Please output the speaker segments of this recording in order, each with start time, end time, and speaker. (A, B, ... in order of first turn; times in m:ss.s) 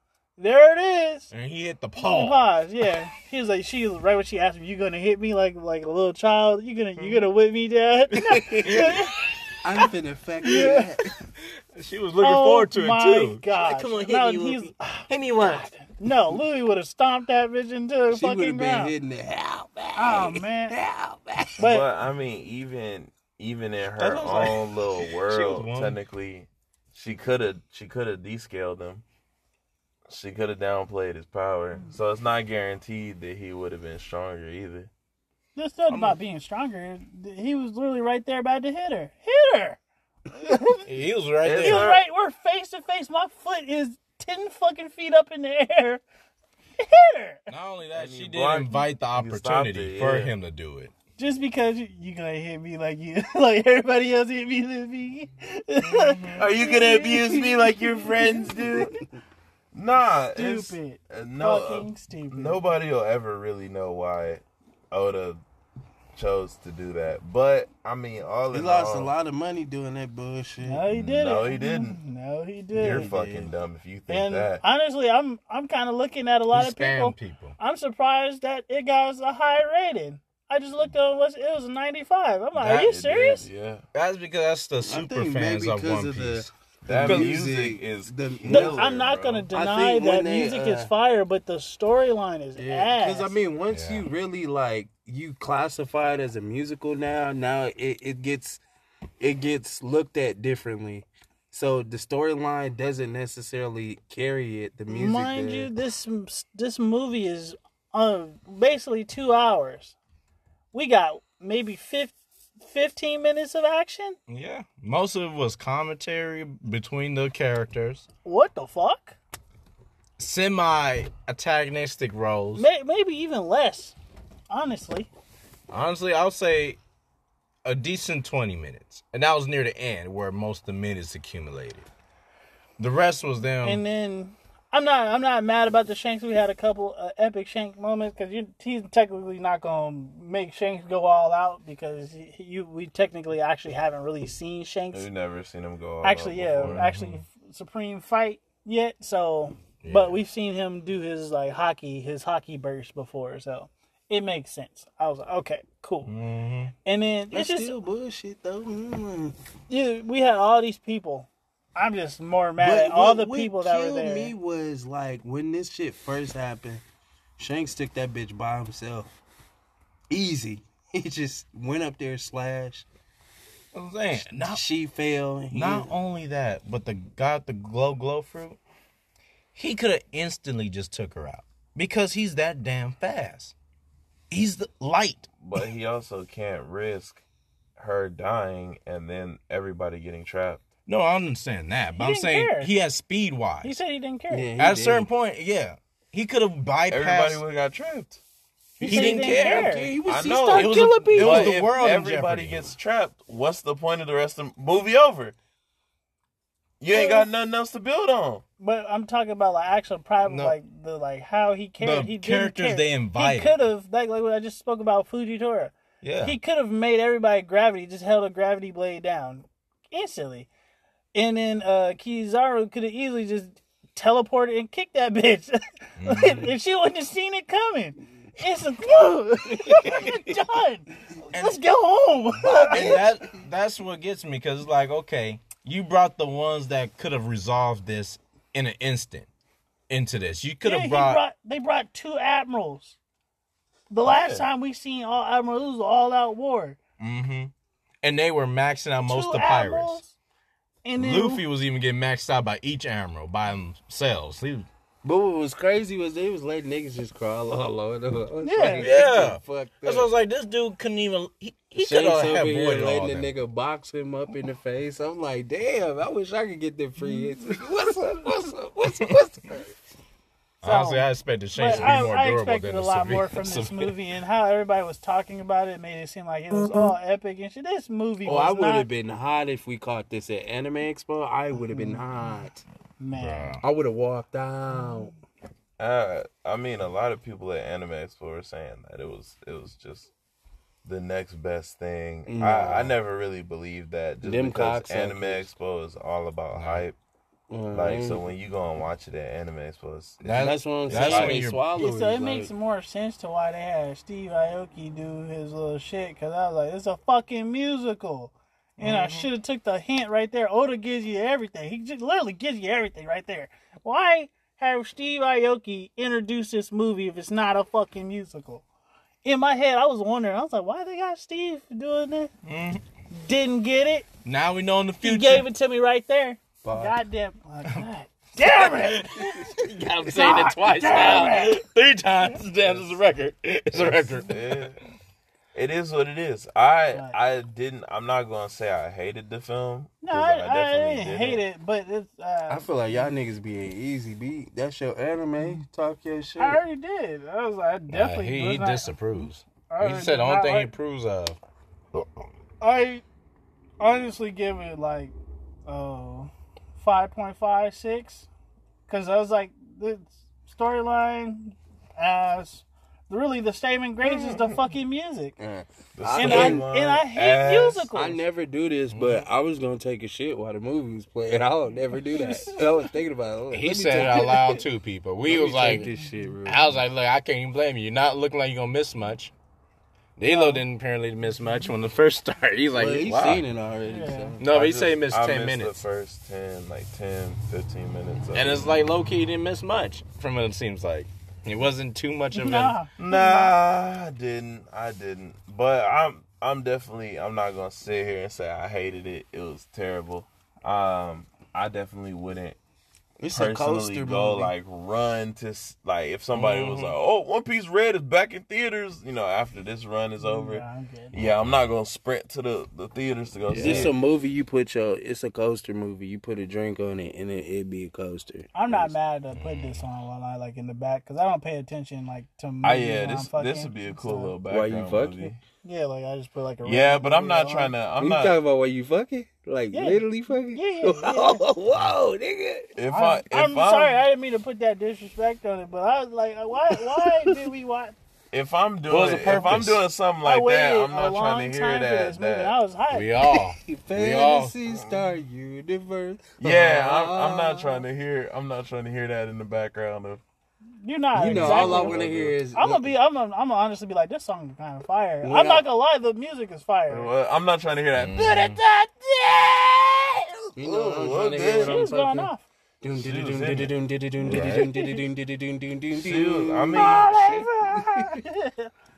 0:00.4-0:01.3 A
0:01.3-0:02.5 B
0:02.0-0:09.1 A
0:08.2-0:08.8 C
0:08.6-0:09.3 B
0:09.6-0:11.0 C
0:10.5-0:15.7 B
0:10.5-0:10.8 A
0:12.2-0:18.9 A
0:18.1-0:21.6 C
0:20.0-0:20.8 A
0:21.6-0:29.0 D
0:21.6-0:21.9 A
0:24.0-0:26.0 B
0:30.1-0:34.9 D
0:35.6-0:40.8 A
0:35.9-0:36.2 B
0:40.9-0:41.9 B
0:41.4-0:42.0 D
0:41.6-0:46.0 A
0:46.8-0:47.5 A
0:47.5-0:50.9 B
0:48.0-0:50.3 D
0:51.2-0:59.0 A
0:55.8-0:56.5 B
0:56.3-0:59.0 D
0:59.7-1:05.4 D
1:00.4-1:02.6 A
1:06.1-1:09.1 D
1:08.5-1:10.8 C
1:10.6-1:13.1 A
1:10.9-1:12.0 D
1:12.7-1:14.6 D
1:12.8-1:13.5 C
1:14.1-1:23.5 A
1:16.5-1:17.6 B
1:22.5-1:22.9 B
1:22.8-1:23.9 D
1:23.9-1:27.4 B
1:24.8-1:28.9 C
1:26.8-1:29.5 D
1:28.5-1:33.3 A
1:29.5-1:30.9 C
1:32.6-1:38.6 C
1:33.7-1:34.1 B
1:39.2-1:45.7 C
1:44.9-1:50.0 A
1:50.7-1:54.2 A
1:54.3-1:58.1 B
1:58.2-1:59.2 A
2:00.2-2:02.7 B
2:02.6-2:04.0 A
2:04.5-2:05.1 A
2:05.7-2:06.8 B
2:07.6-2:11.9 B
2:12.8-2:13.8 B
2:13.6-2:25.1 A
2:24.9-2:26.8 D
2:26.0-2:36.1 A
2:26.7-2:27.2 B
2:29.8-2:30.2 B
2:36.0-2:36.7 B
2:36.8-2:37.8 A
2:37.3-2:39.4 C
2:39.7-2:44.3 A
2:42.6-2:46.8 C
2:47.4-2:49.2 C
2:50.1-2:52.9 C
2:53.7-2:54.6 B
2:54.1-2:55.9 C
2:55.5-2:58.6 B
2:59.6-3:03.5 B
3:04.3-3:05.3 B
3:05.4-3:07.2 D
3:07.8-3:10.6 D
3:10.9-3:13.8 B
3:12.0-3:12.7 A
3:13.6-3:14.5 A
3:14.3-3:15.1 C
3:14.6-3:17.4 B
3:16.9-3:18.2 D
3:18.8-3:21.6 C
3:18.8-3:22.8 B
3:18.8-3:20.0 A
3:20.0-3:25.4 D
3:26.8-3:28.4 D
3:26.9-3:27.3 A
3:28.6-3:40.5 A
3:30.2-3:30.6 B
3:31.8-3:33.6 B
3:36.0-3:36.4 B
3:41.1-3:53.0 A
3:46.0-3:46.5 B
3:49.6-3:50.3 B
3:51.3-3:51.6 B
3:52.5-3:53.1 C
3:52.7-3:59.3 B
3:59.9-4:01.2 B
4:00.6-4:03.0 A
4:03.9-4:06.8 A
4:04.1-4:04.4 D
4:07.0-4:10.0 B
4:09.1-4:10.1 A
4:10.8-4:11.4 A
4:11.0-4:14.7 B
4:15.0-4:20.1 C
4:18.4-4:18.9 A
4:18.8-4:23.3 B
4:21.8-4:29.7 C
4:30.6-4:34.0 B
4:30.6-4:38.9 A
4:31.6-4:32.0 C
4:38.2-4:42.6 C
4:41.7-4:42.0 A
4:43.0-4:43.6 A
4:43.2-4:43.6 B
4:43.6-4:45.1 C
4:45.8-4:50.1 D
4:50.8-4:57.0 D
4:52.3-4:52.9 C
4:54.2-4:55.5 C
4:56.5-4:56.8 B
4:57.5-4:58.3 C
4:57.7-5:01.4 D
5:00.2-5:01.6 B
5:00.4-5:02.5 C
5:01.8-5:18.6 A
5:08.8-5:09.3 B
5:19.2-5:22.3 A
5:22.5-5:22.8 B
5:23.1-5:24.1 A
5:24.2-5:25.5 B
5:25.0-5:29.6 A
5:26.6-5:26.9 C
5:28.4-5:34.4 B
5:30.1-5:31.6 A
5:32.6-5:32.9 D
5:33.7-5:34.8 D
5:35.5-5:41.4 D
5:40.0-5:42.7 A
5:42.5-5:46.6 C
5:46.4-5:50.7 A
5:47.9-5:51.4 B
5:51.9-5:52.3 B
5:52.6-5:53.0 A
5:53.8-5:55.1 A
5:55.7-5:58.3 A
5:58.9-6:05.4 A
6:05.4-6:06.7 C
6:06.0-6:07.9 D
6:06.2-6:08.2 A
6:07.9-6:14.6 C
6:08.9-6:09.3 B
6:12.1-6:12.6 A
6:13.5-6:15.9 B
6:15.3-6:16.8 C
6:16.5-6:19.3 B
6:20.2-6:23.4 B
6:20.3-6:20.6 A
6:22.8-6:24.4 C
6:23.8-6:24.3 A
6:24.4-6:25.8 B
6:24.5-6:28.7 D
6:28.3-6:32.8 B
6:32.3-6:33.5 A
6:33.0-6:42.6 D
6:43.2-6:44.5 C
6:43.3-6:54.0 D
6:46.3-6:47.0 B
6:50.2-6:51.2 A
6:51.1-6:51.7 B
6:53.5-6:58.9 C
6:53.6-6:53.9 B
6:58.5-7:04.3 A
6:59.4-6:59.8 B
7:02.6-7:05.4 D
7:04.5-7:05.4 C
7:05.6-7:07.7 A
7:06.6-7:08.4 D
7:08.0-7:12.7 C
7:09.7-7:11.4 A
7:12.8-7:14.0 D
7:12.9-7:18.0 A
7:17.0-7:17.3 C
7:18.3-7:22.6 D
7:18.9-7:19.8 B
7:20.2-7:23.2 A
7:22.9-7:24.6 B
7:23.6-7:27.8 C
7:24.7-7:25.1 D
7:26.4-7:30.2 D
7:30.8-7:32.0 A
7:31.2-7:32.9 C
7:31.2-7:32.4 D
7:32.6-7:37.1 A
7:35.2-7:35.6 C
7:36.9-7:38.7 D
7:37.9-7:38.6 B
7:38.2-7:39.6 C
7:40.6-7:42.3 C
7:40.6-7:41.8 D
7:41.6-7:42.4 A
7:42.8-7:48.1 C
7:42.9-7:44.7 D
7:44.5-7:45.0 A
7:45.9-7:47.4 D
7:46.7-7:48.7 A